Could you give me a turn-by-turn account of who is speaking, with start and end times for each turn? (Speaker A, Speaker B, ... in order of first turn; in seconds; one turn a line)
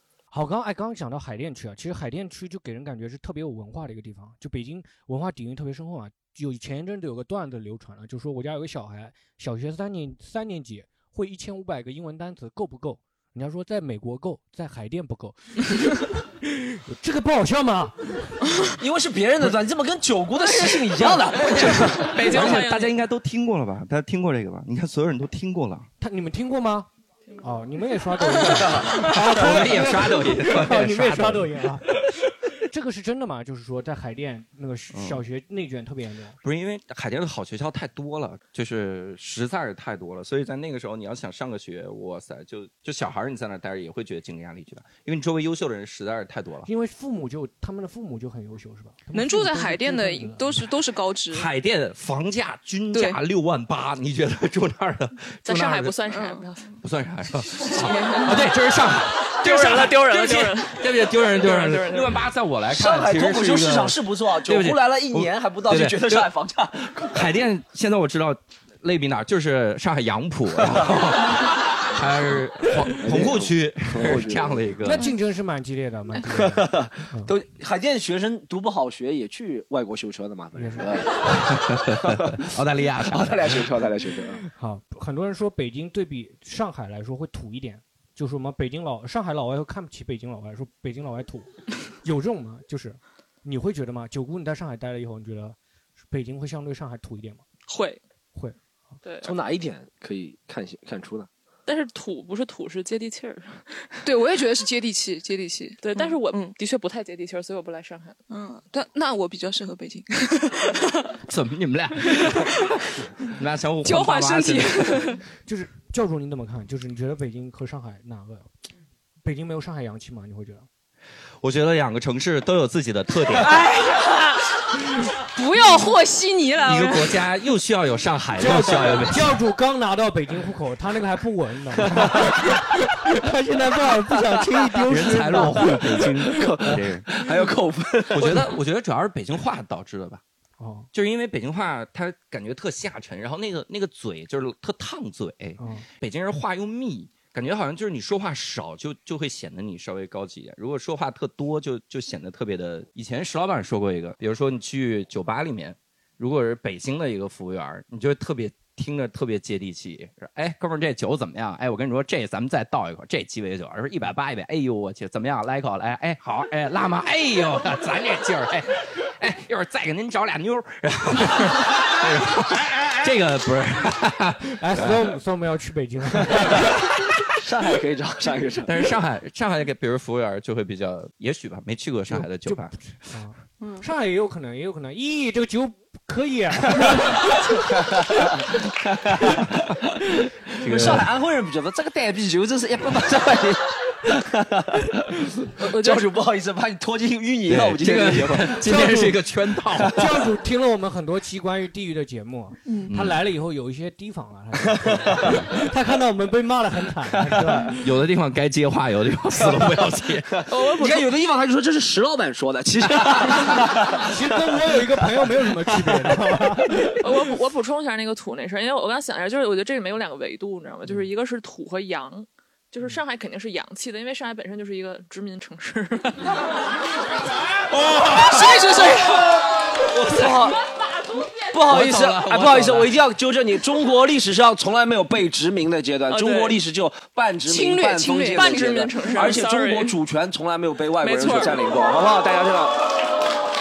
Speaker A: 0.3-16.1
Speaker A: 16.8-18.5
Speaker B: 18.8-22.2
Speaker C: 21.5-22.9
Speaker D: 22.1-25.9
Speaker A: 26.0-26.9
Speaker A: 27.4-36.4
Speaker D: 29.0-32.1
Speaker D: 34.9-35.2
Speaker D: 36.4-46.7
Speaker A: 46.6-50.7
Speaker E: 49.1-51.5
Speaker D: 51.3-56.0
Speaker E: 52.9-53.2
Speaker C: 55.4-56.8
Speaker E: 56.1-56.4
Speaker D: 56.8-66.3
Speaker E: 57.7-58.5
Speaker C: 59.2-62.2
Speaker B: 62.7-67.3
Speaker D: 67.1-75.1
Speaker B: 73.0-74.7
Speaker A: 74.8-77.3
Speaker B: 76.2-82.4
Speaker A: 80.5-80.9
Speaker D: 81.5-83.7
Speaker B: 83.0-84.4
Speaker A: 84.5-97.4
Speaker C: 97.7-98.0
Speaker C: 99.0-99.3
Speaker B: 99.2-101.3
Speaker C: 101.7-104.0
Speaker E: 104.0-106.5
Speaker C: 105.8-108.2
Speaker E: 108.3-111.2
Speaker D: 111.3-112.6
Speaker E: 112.2-112.8
Speaker D: 113.2-115.1
Speaker E: 113.8-115.2
Speaker A: 115.4-118.5
Speaker A: 119.2-120.7
Speaker D: 121.4-123.6
Speaker E: 123.3-127.2
Speaker D: 126.6-129.4
Speaker A: 128.4-136.8
Speaker D: 134.9-137.1
Speaker B: 135.6-138.6
Speaker D: 138.1-140.2
Speaker A: 140.6-140.9
Speaker D: 140.9-175.2
Speaker A: 145.6-145.8
Speaker A: 174.6-176.6
Speaker D: 176.4-176.7
Speaker B: 177.4-178.9
Speaker D: 178.6-182.8
Speaker A: 182.1-187.4
Speaker E: 183.6-183.8
Speaker B: 187.9-188.2
Speaker B: 189.0-189.5
Speaker D: 190.5-191.1
Speaker B: 190.6-198.8
Speaker C: 195.8-196.0
Speaker D: 197.5-200.0
Speaker A: 198.7-199.2
Speaker A: 199.8-207.8
Speaker D: 202.9-203.2
Speaker B: 205.1-205.4
Speaker D: 207.7-210.5
Speaker B: 209.4-216.2
Speaker C: 210.5-211.1
Speaker A: 214.0-217.0
Speaker C: 217.0-226.4
Speaker D: 227.8-228.5
Speaker E: 228.1-229.3
Speaker B: 229.1-230.6
Speaker D: 229.9-230.5
Speaker B: 231.5-242.9
Speaker D: 231.7-233.0
Speaker C: 236.1-236.6
Speaker E: 237.4-238.7
Speaker C: 238.3-240.0
Speaker C: 241.0-241.6